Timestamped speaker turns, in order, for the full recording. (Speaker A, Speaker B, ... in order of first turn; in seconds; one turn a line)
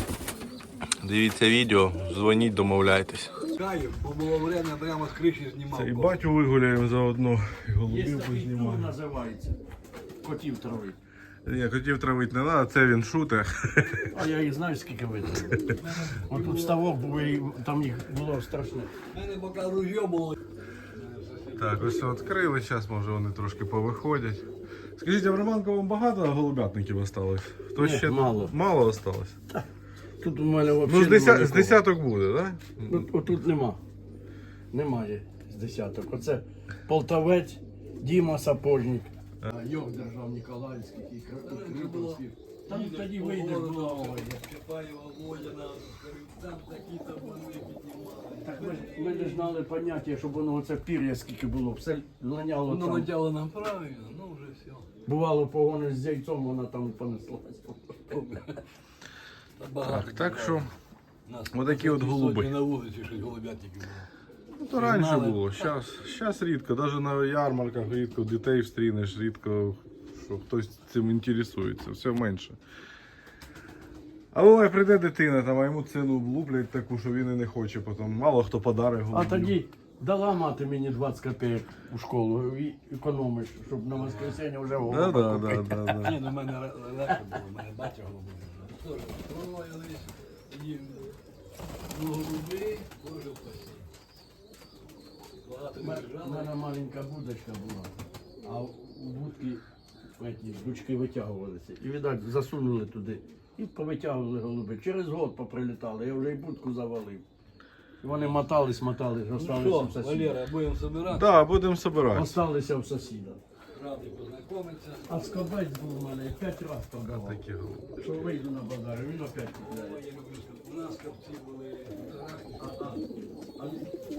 Speaker A: 1.0-3.5
Speaker B: 3.5-6.1
Speaker A: 5.7-8.9
Speaker C: 7.9-9.6
Speaker C: 10.2-11.0
Speaker A: 11.4-14.1
Speaker C: 14.1-19.0
Speaker A: 15.4-15.8
Speaker B: 15.8-16.8
Speaker B: 19.1-20.4
Speaker B: 20.9-21.9
Speaker A: 21.6-29.4
Speaker C: 27.8-28.5
Speaker C: 30.2-31.8
Speaker A: 30.9-33.1
Speaker C: 32.9-33.8
Speaker C: 34.7-44.4
Speaker B: 41.4-49.5
Speaker C: 48.4-53.1
Speaker B: 52.6-54.9
Speaker C: 55.0-58.2
Speaker B: 58.1-58.6
Speaker B: 59.6-60.7
Speaker A: 59.8-60.7
Speaker B: 61.2-64.1
Speaker A: 61.5-62.6
Speaker A: 64.7-72.6
Speaker B: 64.8-65.6
Speaker A: 74.3-79.6
Speaker C: 79.1-86.1
Speaker B: 84.0-84.4
Speaker A: 84.8-86.2
Speaker B: 86.0-91.1
Speaker B: 91.9-93.9
Speaker B: 95.4-96.5
Speaker C: 95.8-97.9
Speaker C: 98.4-99.6
Speaker C: 100.2-107.2
Speaker C: 108.0-110.4
Speaker B: 109.4-111.3
Speaker A: 111.0-112.4
Speaker C: 112.1-113.4
Speaker B: 113.7-115.2
Speaker C: 115.0-117.4
Speaker A: 117.0-118.2
Speaker C: 118.0-120.0
Speaker B: 119.6-122.8
Speaker C: 122.6-123.0
Speaker C: 123.6-123.9